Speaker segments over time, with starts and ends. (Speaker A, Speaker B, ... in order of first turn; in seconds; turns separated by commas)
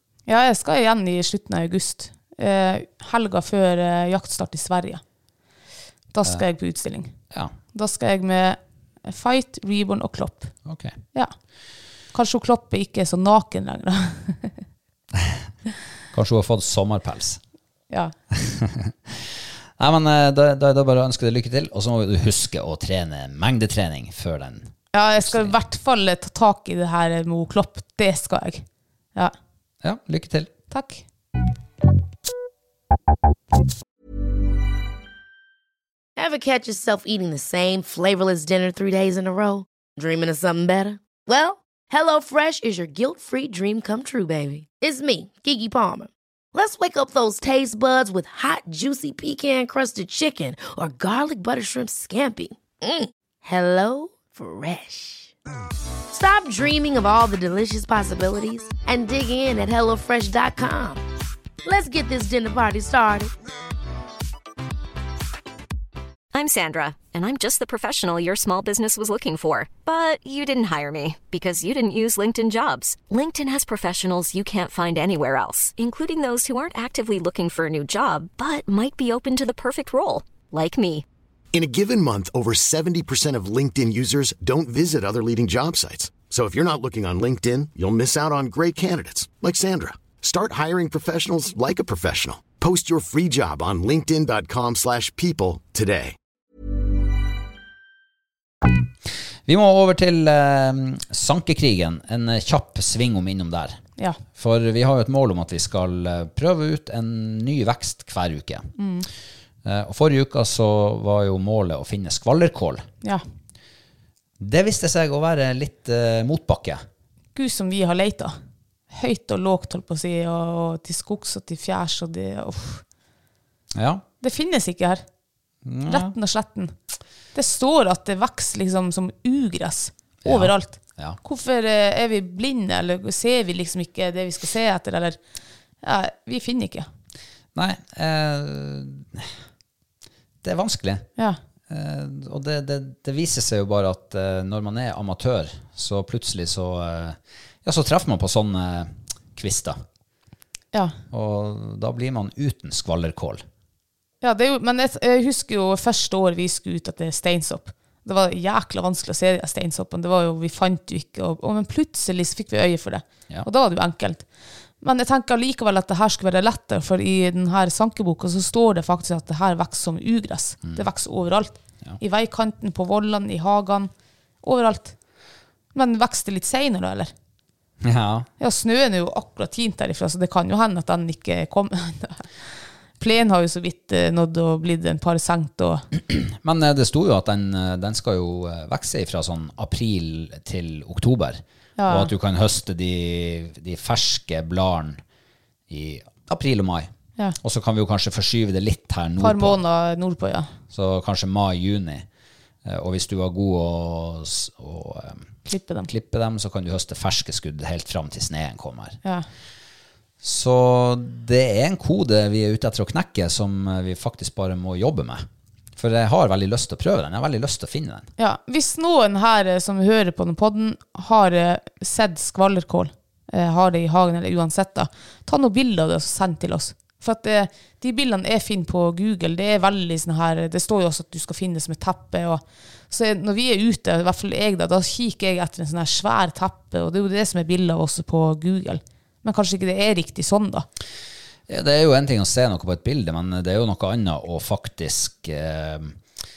Speaker A: 0.3-5.0, Speaker A: 6.1-7.1, Speaker A: 7.7-10.5, Speaker B: 10.7-11.0, Speaker A: 12.1-14.5, Speaker B: 15.1-15.4, Speaker B: 16.1-17.4, Speaker B: 18.3-25.6, Speaker A: 24.9-29.3, Speaker B: 29.8-30.5, Speaker A: 30.7-31.0, Speaker C: 36.1-55.3, Speaker C: 56.1-61.0, Speaker C: 61.6-63.3, Speaker D: 66.3-81.0, Speaker E: 81.5-96.2, Speaker B: 99.5-103.8, Speaker B: 104.3-108.7, Speaker A: 108.8-109.1, Speaker B: 109.6-112.9, Speaker B: 114.4-116.8, Speaker A: 117.3-118.3, Speaker A: 118.9-122.8, Speaker B: 123.7-124.0, Speaker A: 124.2-125.0, Speaker B: 125.6-126.1, Speaker A: 125.9-126.7, Speaker A: 127.3-135.2, Speaker B: 130.2-131.2, Speaker A: 135.8-136.9, Speaker B: 137.5-139.3, Speaker B: 140.4-141.1, Speaker B: 141.7-149.8, Speaker B: 151.1-153.4, Speaker A: 154.2-164.3, Speaker A: 164.8-173.9, Speaker A: 174.4-174.9, Speaker A: 175.7-177.1, Speaker B: 177.8-178.3, Speaker A: 178.4-185.8, Speaker B: 185.9-195.0, Speaker A: 191.8-192.1, Speaker B: 195.7-199.6, Speaker A: 199.2-200.5, Speaker B: 200.7-202.1, Speaker B: 202.6-205.3, Speaker A: 205.4-205.9, Speaker B: 205.9-209.0, Speaker B: 210.2-218.1, Speaker A: 218.2-240.7, Speaker B: 241.5-246.0